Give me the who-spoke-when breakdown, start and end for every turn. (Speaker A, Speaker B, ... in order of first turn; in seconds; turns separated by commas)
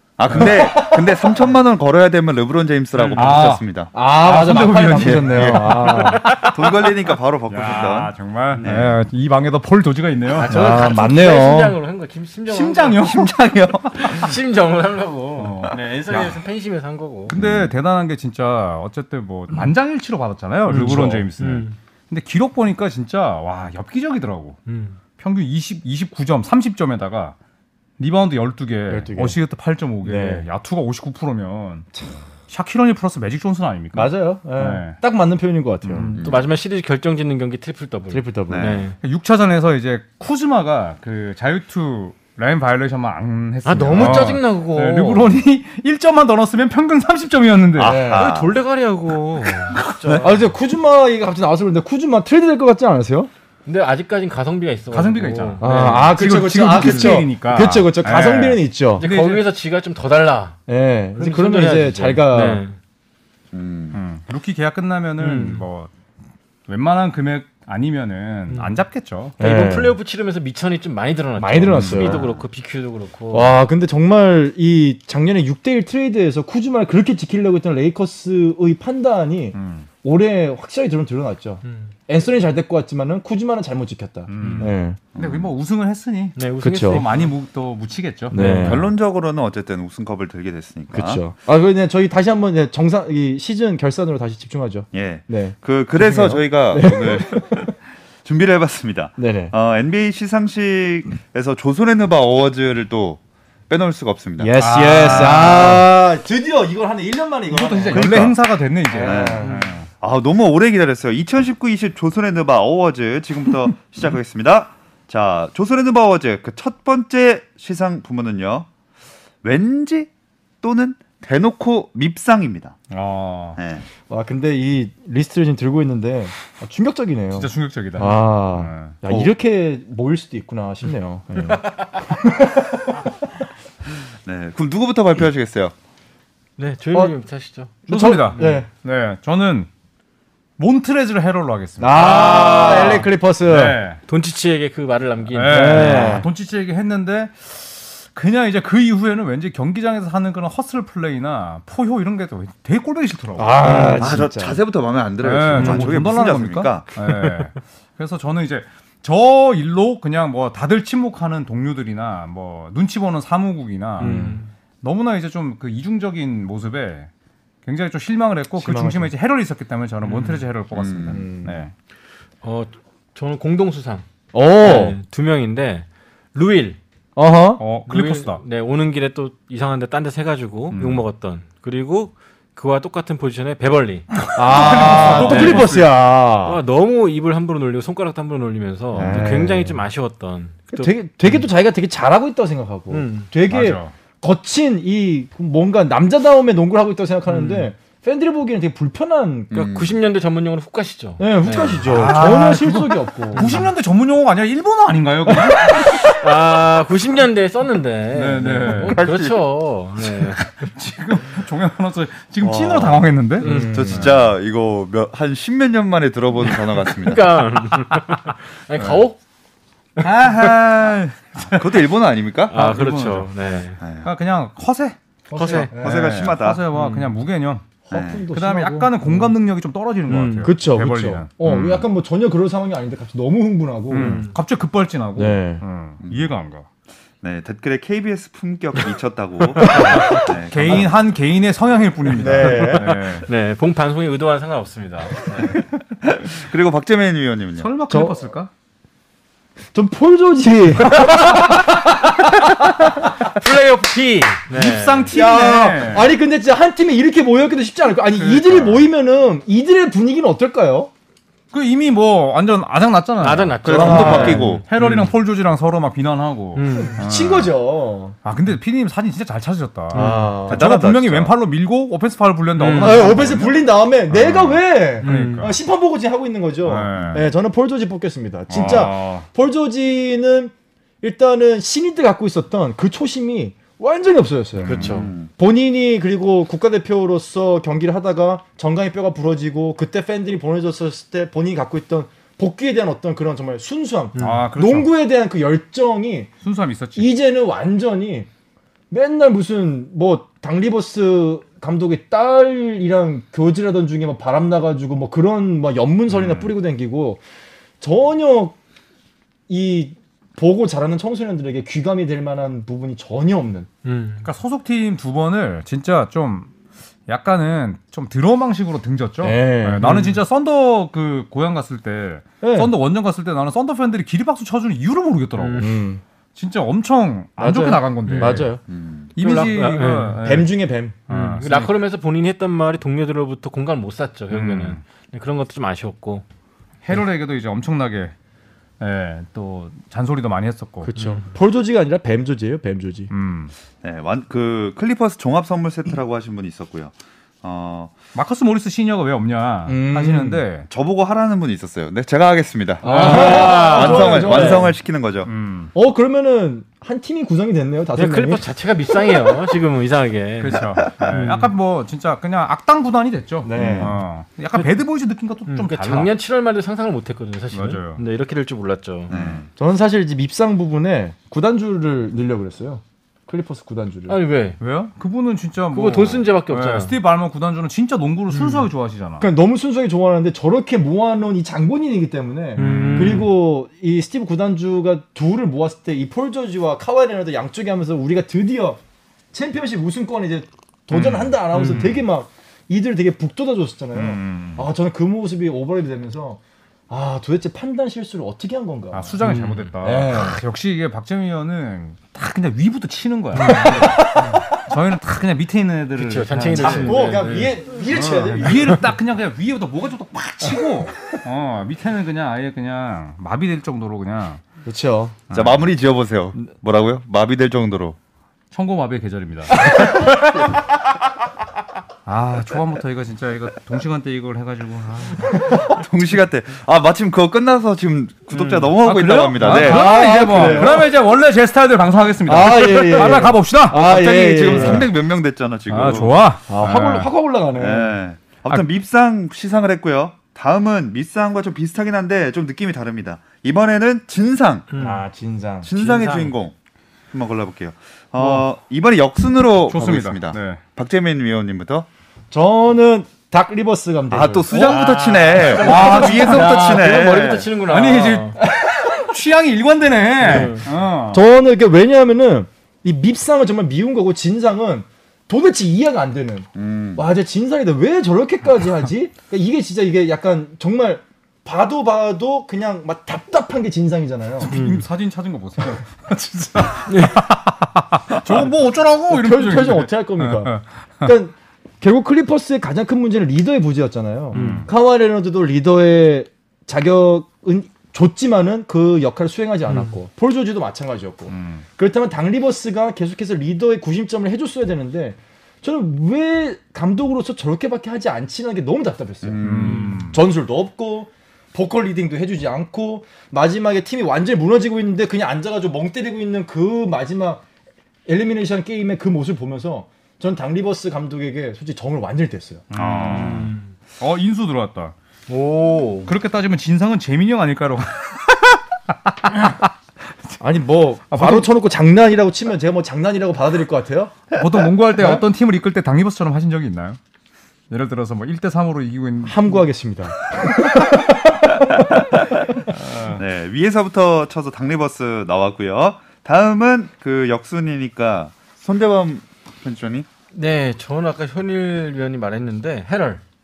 Speaker A: 0.2-3.9, Speaker B: 0.3-1.4, Speaker C: 3.0-3.3, Speaker D: 3.1-6.5, Speaker B: 3.9-6.3, Speaker A: 5.0-9.0, Speaker D: 7.5-10.7, Speaker C: 10.3-13.1, Speaker B: 10.5-11.8, Speaker D: 12.5-13.3, Speaker A: 12.9-14.3, Speaker C: 13.9-17.3, Speaker D: 15.4-16.4, Speaker D: 17.3-24.6, Speaker A: 17.3-17.7, Speaker C: 20.7-21.8, Speaker B: 20.7-21.2, Speaker C: 24.6-25.0, Speaker D: 25.2-27.4, Speaker D: 28.0-31.9, Speaker B: 28.9-29.4, Speaker B: 30.0-30.5, Speaker D: 32.5-35.0, Speaker B: 33.9-36.1, Speaker D: 35.8-36.3, Speaker A: 36.1-36.4, Speaker C: 36.2-39.0, Speaker B: 38.1-38.8, Speaker A: 38.5-38.8, Speaker D: 39.0-48.0, Speaker C: 43.6-45.3, Speaker A: 47.7-48.5, Speaker B: 47.8-48.3, Speaker C: 48.1-50.4, Speaker A: 49.7-50.3, Speaker B: 50.2-53.3, Speaker C: 53.6-56.2, Speaker D: 54.9-59.4, Speaker B: 55.6-59.1, Speaker C: 59.0-60.6, Speaker B: 60.7-62.6, Speaker C: 61.2-62.8, Speaker A: 63.5-64.0, Speaker D: 63.9-65.9, Speaker C: 65.2-65.6, Speaker D: 66.7-69.3, Speaker C: 68.5-68.8, Speaker C: 69.4-73.6, Speaker B: 69.4-70.0, Speaker B: 71.4-72.2, Speaker A: 71.8-72.3, Speaker B: 73.3-85.0, Speaker D: 79.5-79.9, Speaker C: 81.6-81.9, Speaker D: 84.3-88.7, Speaker A: 85.1-85.5, Speaker C: 86.3-87.3, Speaker B: 86.6-87.0, Speaker B: 88.3-88.9, Speaker C: 88.3-88.8, Speaker A: 88.6-91.2, Speaker B: 90.9-97.7, Speaker A: 94.9-104.5, Speaker B: 99.2-99.5, Speaker B: 104.4-109.7, Speaker D: 104.6-105.9, Speaker A: 105.0-105.5, Speaker D: 107.5-109.9, Speaker A: 107.9-108.3, Speaker A: 109.0-109.5, Speaker C: 109.4-109.7, Speaker A: 110.0-118.7, Speaker A: 119.4-120.1, Speaker A: 120.6-122.8, Speaker D: 122.9-123.6, Speaker A: 123.6-123.8, Speaker B: 124.1-132.9, Speaker D: 127.3-128.9, Speaker A: 134.2-135.7, Speaker C: 136.6-137.8, Speaker B: 137.9-138.7, Speaker D: 137.9-139.7, Speaker C: 138.3-138.6, Speaker D: 140.6-144.0, Speaker B: 141.8-143.8, Speaker C: 142.0-143.0, Speaker C: 144.1-146.2, Speaker D: 145.3-154.2, Speaker B: 145.5-146.3, Speaker B: 153.4-154.6, Speaker C: 153.7-154.0, Speaker A: 154.0-156.9, Speaker D: 155.2-167.1, Speaker B: 155.6-155.9, Speaker C: 155.6-155.8, Speaker C: 164.0-164.5, Speaker B: 164.0-164.4, Speaker D: 167.6-171.7, Speaker B: 168.6-169.1, Speaker C: 170.0-170.4, Speaker A: 170.7-171.3, Speaker B: 171.1-171.6, Speaker C: 172.4-174.1, Speaker B: 174.3-174.9, Speaker C: 174.6-176.8, Speaker B: 177.2-177.7, Speaker D: 177.6-178.4, Speaker C: 177.8-184.1, Speaker D: 180.7-181.0, Speaker D: 184.1-185.9, Speaker B: 184.3-186.6, Speaker C: 184.7-185.7, Speaker C: 186.4-191.5, Speaker B: 189.0-189.8, Speaker B: 190.7-199.5, Speaker C: 192.9-193.3, Speaker D: 193.5-193.9, Speaker C: 197.3-197.7, Speaker A: 199.5-199.9, Speaker C: 199.5-202.3, Speaker B: 201.2-203.6, Speaker D: 201.9-206.0, Speaker C: 203.3-203.7, Speaker C: 205.3-210.7, Speaker D: 208.1-209.0, Speaker A: 208.8-209.4, Speaker D: 210.2-214.1, Speaker A: 212.4-217.4, Speaker C: 213.4-214.0, Speaker B: 213.4-214.2, Speaker C: 216.8-219.2, Speaker D: 218.8-219.0, Speaker C: 220.0-220.5, Speaker D: 220.0-221.9, Speaker A: 220.0-222.5, Speaker C: 222.5-223.8, Speaker D: 222.5-223.4, Speaker A: 223.8-224.1, Speaker D: 224.0-227.7, Speaker B: 225.3-226.1, Speaker C: 225.3-225.7, Speaker A: 225.7-226.6, Speaker C: 226.7-227.1, Speaker B: 227.9-229.3, Speaker A: 227.9-228.2, Speaker D: 228.3-231.8, Speaker B: 230.1-234.3, Speaker C: 230.1-230.5, Speaker A: 231.4-231.7, Speaker D: 233.9-236.7, Speaker C: 234.0-234.3, Speaker B: 235.2-235.6, Speaker A: 236.0-236.3, Speaker A: 237.2-240.9, Speaker B: 239.6-240.2, Speaker C: 239.7-240.2, Speaker D: 240.4-243.3, Speaker B: 242.1-243.0, Speaker C: 243.0-245.6, Speaker A: 246.0-247.7, Speaker D: 247.6-248.5, Speaker B: 247.9-248.3, Speaker B: 249.7-252.0, Speaker C: 251.1-251.5, Speaker C: 253.0-255.1, Speaker D: 254.5-256.1, Speaker B: 255.1-260.9, Speaker D: 258.1-258.9, Speaker D: 261.5-267.5, Speaker C: 263.2-265.1, Speaker A: 263.6-264.6, Speaker B: 263.7-264.5, Speaker C: 266.5-267.0, Speaker B: 266.7-268.1, Speaker D: 268.2-275.6, Speaker C: 269.9-270.4, Speaker B: 269.9-270.7, Speaker A: 270.5-271.3, Speaker C: 272.6-273.1, Speaker B: 272.7-296.3, Speaker C: 275.0-275.5, Speaker D: 276.6-277.3, Speaker D: 278.5-279.3, Speaker D: 284.6-285.1, Speaker C: 284.6-285.1, Speaker A: 284.8-285.3, Speaker C: 294.1-294.4, Speaker D: 294.2-294.9, Speaker D: 296.4-297.1, Speaker B: 296.9-298.3, Speaker B: 298.9-307.2, Speaker D: 306.1-306.5, Speaker B: 307.8-308.6, Speaker B: 309.5-313.7, Speaker C: 313.8-314.3, Speaker D: 314.2-316.5, Speaker D: 317.1-325.7, Speaker B: 319.2-320.1, Speaker B: 322.4-322.7, Speaker C: 325.4-325.7, Speaker B: 325.6-326.0, Speaker D: 326.3-328.6, Speaker B: 327.4-328.6, Speaker C: 328.0-328.4, Speaker A: 328.7-329.1, Speaker D: 329.1-330.5, Speaker C: 329.2-330.2, Speaker B: 329.2-331.0, Speaker D: 331.1-331.7, Speaker C: 331.1-336.2, Speaker D: 334.3-334.8, Speaker D: 336.8-338.1, Speaker D: 338.8-340.9, Speaker B: 340.8-343.1, Speaker C: 340.9-341.3, Speaker D: 343.1-343.5, Speaker A: 343.8-348.0, Speaker D: 348.1-350.7, Speaker B: 349.7-350.4, Speaker A: 350.7-355.3, Speaker B: 352.8-354.7, Speaker D: 352.8-354.6, Speaker C: 352.8-354.6, Speaker D: 355.2-355.7, Speaker B: 355.7-358.4, Speaker C: 357.9-361.5, Speaker D: 360.4-366.1, Speaker B: 363.4-363.9, Speaker A: 363.6-363.9, Speaker C: 365.5-369.1, Speaker D: 367.5-368.0, Speaker A: 369.1-369.5, Speaker D: 369.1-369.4, Speaker B: 369.6-374.2, Speaker C: 374.1-374.6, Speaker D: 374.6-379.3, Speaker C: 375.7-377.0, Speaker C: 378.3-378.6, Speaker B: 379.2-388.8, Speaker C: 382.6-383.3, Speaker D: 382.6-383.3, Speaker B: 389.3-399.2, Speaker D: 390.9-391.4, Speaker C: 391.5-392.0, Speaker D: 393.9-394.7, Speaker D: 398.9-414.4, Speaker C: 399.2-399.7, Speaker B: 399.8-400.4, Speaker C: 403.3-404.4, Speaker B: 403.4-404.6, Speaker C: 406.0-407.5, Speaker B: 406.5-408.9, Speaker B: 410.4-411.2, Speaker B: 414.6-415.2, Speaker D: 415.3-415.7, Speaker A: 415.3-417.9, Speaker D: 418.5-419.6, Speaker B: 419.6-420.0, Speaker D: 422.1-425.5, Speaker A: 425.6-430.8, Speaker D: 428.8-434.9, Speaker B: 429.4-430.9, Speaker B: 432.2-434.9, Speaker A: 433.8-436.7, Speaker D: 435.7-437.1, Speaker B: 436.5-437.9, Speaker A: 437.5-444.7, Speaker C: 444.7-445.0, Speaker B: 444.8-445.7, Speaker A: 445.6-446.5, Speaker C: 445.8-446.3, Speaker A: 447.1-451.9, Speaker D: 449.6-450.6, Speaker B: 452.3-454.8, Speaker A: 454.1-457.5, Speaker C: 454.5-458.4, Speaker D: 455.6-456.6, Speaker B: 455.6-456.8, Speaker D: 457.7-461.2, Speaker C: 460.2-460.6, Speaker B: 460.3-460.6, Speaker B: 461.1-474.5, Speaker A: 466.5-467.0, Speaker D: 474.4-481.1, Speaker C: 474.5-474.8, Speaker C: 476.9-477.2, Speaker B: 479.1-507.4, Speaker D: 484.3-484.7, Speaker C: 484.3-484.7, Speaker C: 489.7-490.0, Speaker D: 491.3-491.6, Speaker A: 499.2-500.0, Speaker D: 499.4-500.2, Speaker C: 499.7-500.0, Speaker B: 508.1-512.6, Speaker D: 512.7-514.9, Speaker A: 512.8-513.5, Speaker C: 513.1-513.7, Speaker C: 515.3-516.1, Speaker D: 516.0-519.7, Speaker B: 520.4-525.2, Speaker D: 521.1-521.5, Speaker D: 524.3-527.0, Speaker D: 527.7-529.6, Speaker B: 529.2-531.6, Speaker D: 532.7-533.2, Speaker A: 533.0-540.1, Speaker C: 540.3-543.2